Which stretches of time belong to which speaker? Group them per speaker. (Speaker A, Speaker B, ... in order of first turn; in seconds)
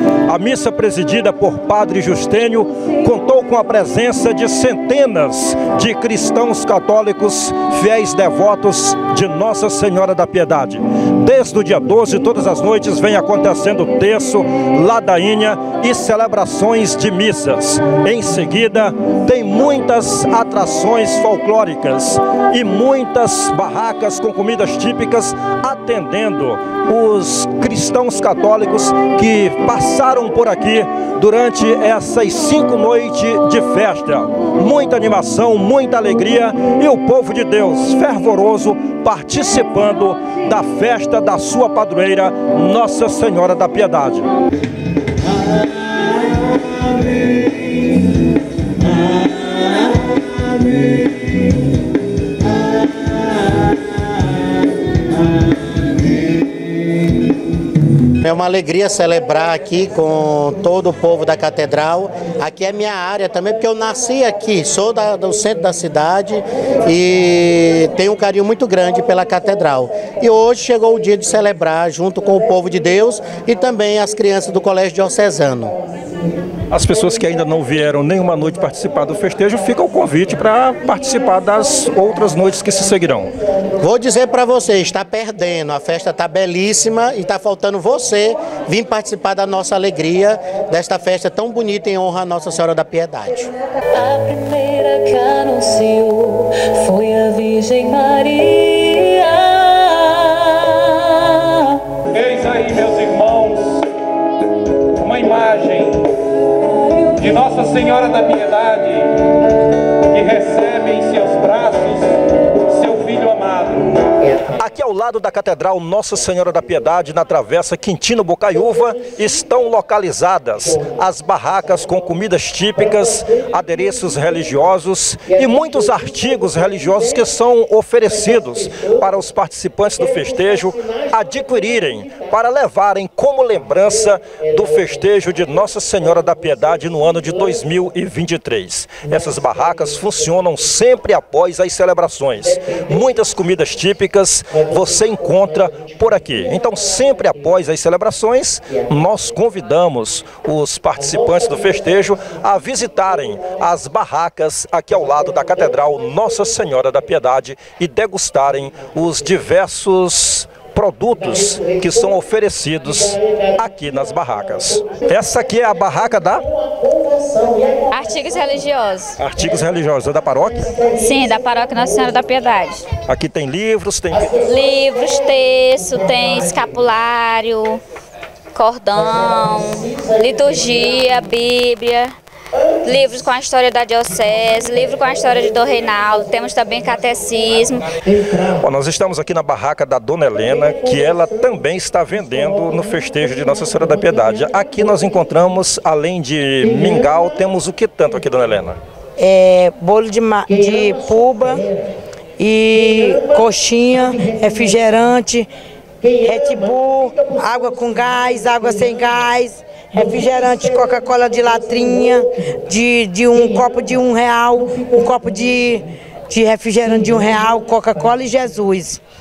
Speaker A: 0.3-44.3, 76.7-83.3, 114.5-166.5, 169.2-170.8, 173.1-174.4, 188.4-198.8
Speaker B: 58.2-75.7, 83.8-93.5
Speaker C: 94.0-100.2
Speaker D: 102.1-103.7, 105.0-105.9, 107.2-109.1, 110.1-112.0, 112.7-113.8
Speaker E: 167.9-169.2, 170.9-172.8, 174.4-177.8, 178.5-182.1, 182.8-187.8
Speaker F: 199.2-201.6, 202.4-205.5, 206.2-218.9